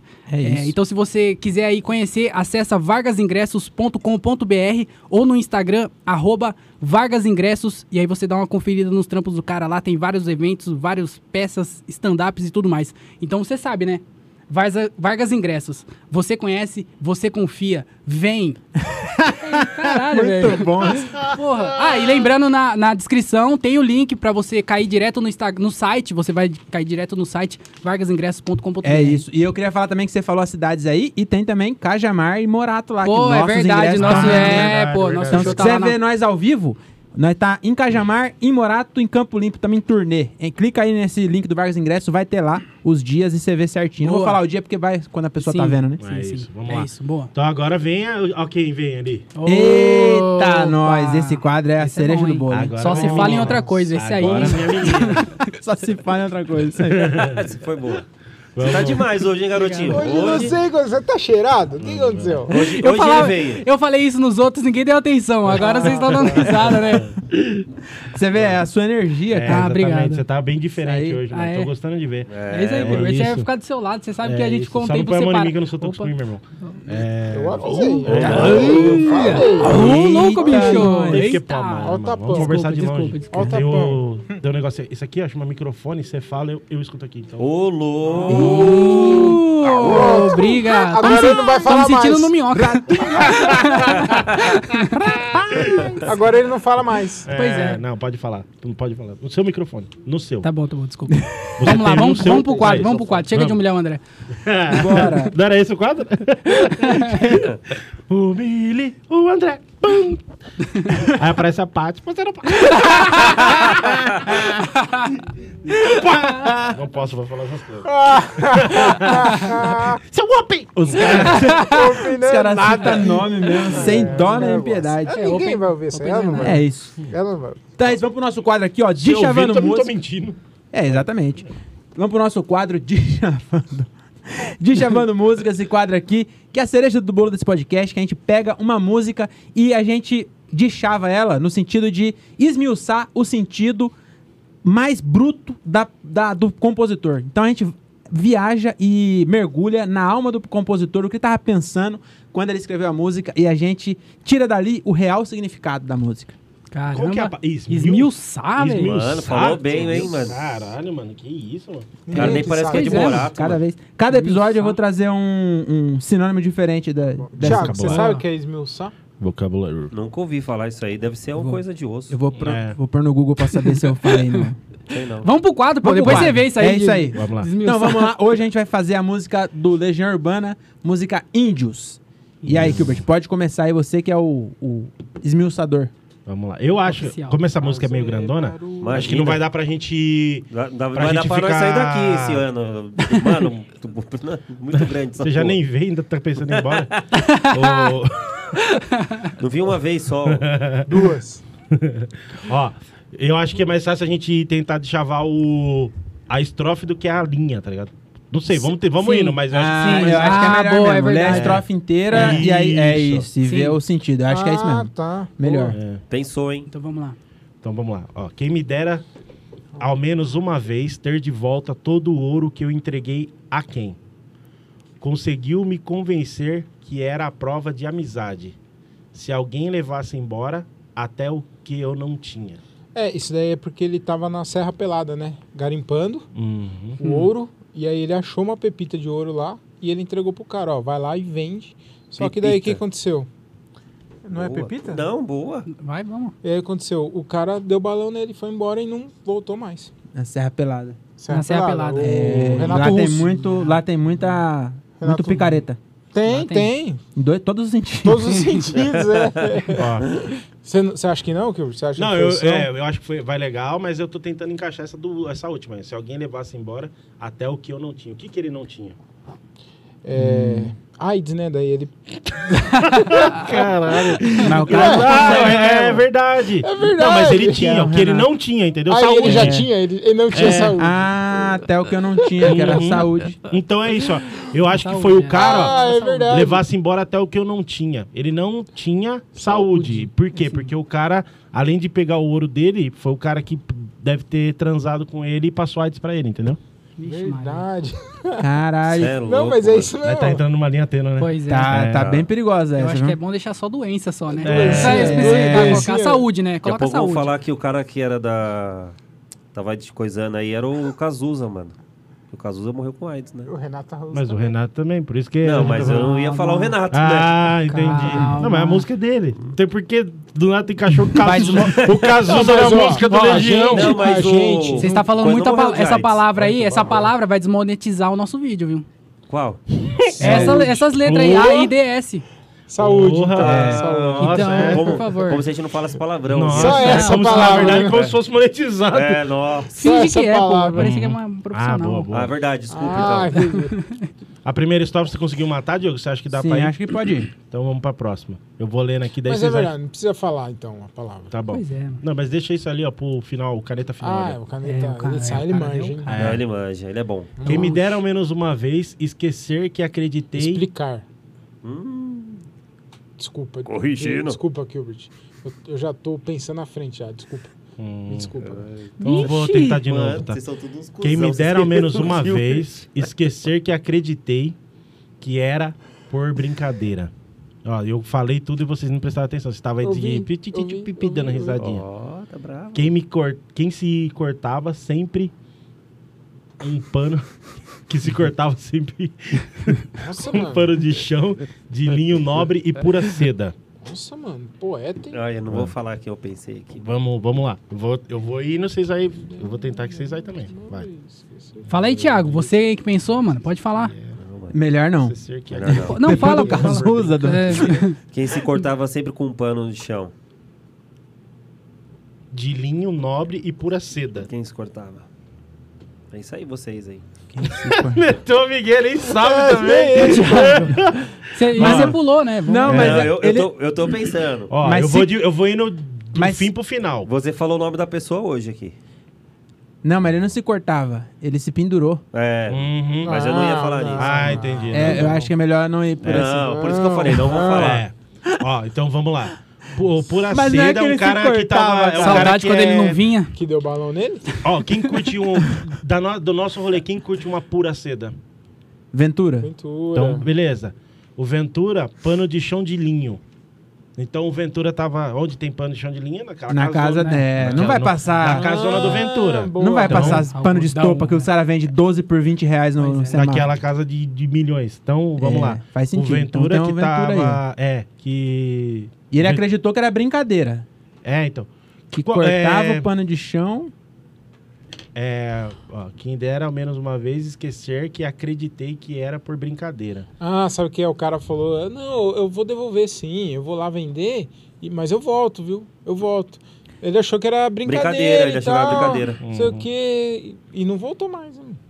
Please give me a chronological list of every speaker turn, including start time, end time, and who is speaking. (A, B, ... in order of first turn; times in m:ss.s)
0:00.3-0:00.7 A
0:00.4-0:18.6 B
0:18.8-0:21.2 A
0:19.4-0:29.2 B
0:21.1-0:22.0 C
0:28.8-0:46.0 A
0:33.0-0:36.0 B
0:33.9-0:35.8 C
0:44.0-0:44.4 B
0:45.4-0:47.3 B
0:46.0-0:49.3 C
0:49.3-0:55.4 B
0:49.4-0:53.5 A
0:52.5-0:55.3 C
0:55.2-0:57.4 A
0:56.8-0:57.4 C
0:57.1-0:58.0 D
0:58.6-0:59.1 C
0:58.6-1:00.6 D
0:59.5-1:00.3 B
0:59.9-1:02.6 E
1:01.8-1:02.4 C
1:02.5-1:03.6 D
1:02.5-1:07.2 B
1:05.5-1:07.6 C
1:05.6-1:06.0 E
1:08.0-1:09.7 A
1:09.3-1:13.5 C
1:09.5-1:10.2 B
1:10.8-1:11.2 A
1:11.3-1:11.7 B
1:12.3-1:13.1 D
1:12.5-1:16.1 B
1:14.2-1:19.1 C
1:17.3-1:20.5 E
1:18.0-1:19.6 D
1:18.5-1:23.7 B
1:19.6-1:21.4 A
1:20.4-1:27.5 C
1:21.8-1:22.6 E
1:23.3-1:24.0 E
1:27.4-1:30.2 D
1:28.2-1:35.4 B
1:28.2-1:32.4 E
1:28.3-1:29.4 A
1:32.5-1:34.0 A
1:33.2-1:34.1 C
1:34.9-1:35.8 A
1:35.5-1:37.3 E
1:35.5-1:35.9 C
1:37.2-1:40.5 C
1:37.3-1:37.8 B
1:40.4-1:44.0 B
1:41.1-1:41.8 A
1:41.6-1:43.6 C
1:42.2-1:43.0 E
1:44.4-1:50.2 C
1:44.7-1:45.3 A
1:46.7-1:47.2 B
1:50.8-1:54.6 C
1:52.8-1:53.3 B
1:53.6-1:53.8 A
1:55.6-2:01.8 C
1:55.7-1:56.8 A
1:57.8-2:00.0 E
2:01.0-2:05.2 A
2:01.0-2:07.7 E
2:01.0-2:01.9 B
2:03.8-2:04.2 C
2:05.1-2:06.6 B
2:06.4-2:07.0 A
2:07.8-2:09.9 A
2:09.0-2:11.0 C
2:10.7-2:23.9 A
2:24.6-2:36.3 A
2:36.7-2:38.9 B
2:36.9-2:42.0 C
2:38.8-2:40.4 D
2:42.0-2:43.3 E
2:42.1-2:43.6 D
2:42.2-2:43.3 B
2:43.0-2:48.1 A
2:44.1-2:44.8 B
2:47.3-2:48.9 E
2:47.4-2:48.1 C
2:47.9-2:48.2 B
2:49.2-2:49.9 C
2:49.9-2:52.2 D
2:51.4-2:54.6 A
2:52.4-2:52.8 C
2:54.9-2:55.3 D
2:55.2-2:58.1 B
2:55.8-3:05.9 A
2:56.0-2:56.4 C
2:56.6-2:57.0 E
2:57.1-2:57.5 C
3:02.4-3:02.9 C
3:06.3-3:12.4 C
3:06.9-3:07.4 B
3:07.6-3:09.2 E
3:08.8-3:09.4 D
3:10.5-3:15.6 D
3:13.2-3:13.4 B
3:14.7-3:18.6 C
3:16.5-3:17.0 D
3:17.1-3:18.0 B
3:18.6-3:19.3 B
3:19.4-3:20.5 D
3:20.3-3:21.0 C
3:20.8-3:21.4 E
3:21.7-3:30.6 C
3:29.0-3:31.6 B
3:29.5-3:35.8 A
3:31.2-3:33.3 C
3:33.4-3:33.8 B
3:34.3-3:35.8 E
3:35.7-3:36.0 C
3:36.1-3:36.7 D
3:36.7-3:37.2 B
3:37.6-3:39.0 C
3:39.8-3:44.0 C
3:45.0-3:48.6 C
3:49.1-3:52.6 C
3:52.9-3:56.3 E
3:56.3-3:57.0 C
3:57.0-4:03.3 E
3:57.0-3:57.3 B
4:02.2-4:02.8 A
4:04.2-4:05.0 E
4:04.3-4:05.7 D
4:05.7-4:06.3 B
4:06.4-4:09.9 E
4:10.1-4:11.0 A
4:11.2-4:13.4 E
4:11.3-4:13.2 B
4:12.0-4:15.8 A
4:15.0-4:17.0 E
4:16.3-4:16.7 B
4:17.2-4:18.4 A
4:18.0-4:22.7 E
4:18.4-4:18.7 B
4:18.8-4:19.7 D
4:19.7-4:20.1 C
4:22.0-4:29.0 C
4:30.0-4:35.8 E
4:30.2-4:30.7 A
4:30.2-4:30.6 C
4:32.7-4:39.7 C
4:34.4-4:36.0 A
4:36.6-4:37.7 E
4:37.4-4:38.3 A
4:38.9-4:41.6 E
4:39.2-4:39.7 A
4:40.3-4:40.8 C
4:40.4-4:43.4 A
4:42.2-4:42.8 E
4:42.4-4:56.6 C
4:44.7-4:46.5 B
4:45.3-4:46.6 E
4:49.6-4:50.7 B
4:57.0-4:57.6 B
4:57.0-4:58.5 E
4:58.4-4:59.2 A
4:58.9-4:59.9 D
4:59.2-5:00.4 E
5:00.0-5:02.2 C
5:01.2-5:01.8 B
5:01.5-5:03.2 A
5:02.8-5:07.3 B
5:04.4-5:06.3 E
5:04.4-5:05.3 C
5:04.8-5:05.9 A
5:06.6-5:08.9 D
5:09.5-5:11.8 D
5:12.3-5:13.5 D
5:13.5-5:14.5 E
5:14.1-5:16.2 C
5:15.4-5:17.5 D
5:15.8-5:16.8 B
5:16.9-5:24.1 C
5:17.6-5:18.8 B
5:21.2-5:22.0 A
5:21.3-5:21.8 B
5:22.2-5:25.1 E
5:22.8-5:26.9 D
5:24.8-5:28.8 B
5:26.4-5:27.1 C
5:29.3-5:29.6 D
5:29.9-5:31.7 C
5:30.2-5:32.2 B
5:30.2-5:30.7 A
5:30.3-5:30.6 E
5:32.7-5:35.0 E
5:32.8-5:34.9 C
5:33.4-5:33.9 A
5:33.6-5:38.1 D
5:34.2-5:35.5 B
5:36.3-5:39.2 C
5:36.5-5:38.1 E
5:36.7-5:37.9 B
5:38.9-5:39.7 D
5:39.7-5:42.1 B
5:39.8-5:40.9 E
5:40.7-5:42.4 C
5:42.1-5:43.5 D
5:42.7-5:43.8 E
5:43.3-5:44.1 B
5:44.4-5:46.8 C
5:46.3-5:47.3 A
5:47.5-5:49.7 C
5:49.2-5:51.3 E
5:51.3-5:54.4 C
5:51.5-5:52.0 B
5:54.0-5:56.3 E
5:54.6-5:56.3 B
5:56.1-5:56.4 C
5:56.1-5:57.4 D
5:57.4-5:57.8 E
5:57.4-6:00.6 C
5:57.5-5:57.8 B
6:00.4-6:01.0 E
6:01.6-6:02.4 D
6:03.2-6:07.5 E
6:03.6-6:04.4 D
6:07.8-6:08.3 C
6:08.1-6:08.7 E
6:08.4-6:12.7 D
6:09.0-6:09.8 A
6:09.0-6:10.4 C
6:11.0-6:14.6 C
6:15.2-6:17.1 C
6:17.6-6:21.8 C
6:19.8-6:21.6 E
6:21.6-6:22.9 D
6:22.7-6:25.3 C
6:26.6-6:27.3 C
6:27.9-6:33.5 C
6:30.0-6:30.7 E
6:33.8-6:35.2 E
6:35.1-6:36.9 D
6:36.8-6:40.9 C
6:39.3-6:41.7 E
6:41.7-6:42.5 C
6:41.7-6:43.9 B
6:43.7-6:44.2 C
6:44.1-6:44.6 D
6:44.5-6:45.2 A
6:45.0-6:47.7 C
6:45.5-6:46.2 D
6:45.7-6:47.8 A
6:45.8-6:48.0 B
6:48.1-6:50.1 D
6:52.3-6:54.3 C
6:54.3-6:55.0 D
6:56.1-6:57.0 D
6:57.3-6:58.0 A
6:57.5-7:02.0 C
6:59.1-7:00.8 E
7:00.1-7:00.7 B
7:01.3-7:02.9 B
7:01.6-7:03.5 A
7:02.6-7:03.1 C
7:02.7-7:04.5 D
7:04.5-7:07.1 C
7:04.6-7:05.2 A
7:06.1-7:06.5 A
7:07.0-7:08.7 D
7:09.8-7:12.0 A
7:12.1-7:14.6 D
7:12.5-7:13.3 C
7:13.0-7:15.3 E
7:14.0-7:15.3 C
7:14.7-7:16.7 A
7:16.0-7:17.8 D
7:16.2-7:17.8 E
7:17.4-7:23.0 C
7:20.3-7:22.4 A
7:22.0-7:23.3 B
7:23.3-7:24.4 E
7:24.4-7:28.1 C
7:28.9-7:29.5 A
7:29.4-7:30.3 E
7:29.9-7:33.2 C
7:34.0-7:40.2 C
7:36.5-7:39.0 A
7:38.2-7:40.3 E
7:39.6-7:43.5 A
7:40.0-7:41.3 B
7:42.8-7:43.3 B
7:43.1-7:49.4 C
7:45.2-7:47.4 A
7:49.1-7:50.6 A
7:51.0-7:52.9 C
7:51.9-7:53.7 A
7:54.9-8:00.1 C
8:00.2-8:11.6 E
8:07.6-8:09.2 D
8:09.2-8:09.7 C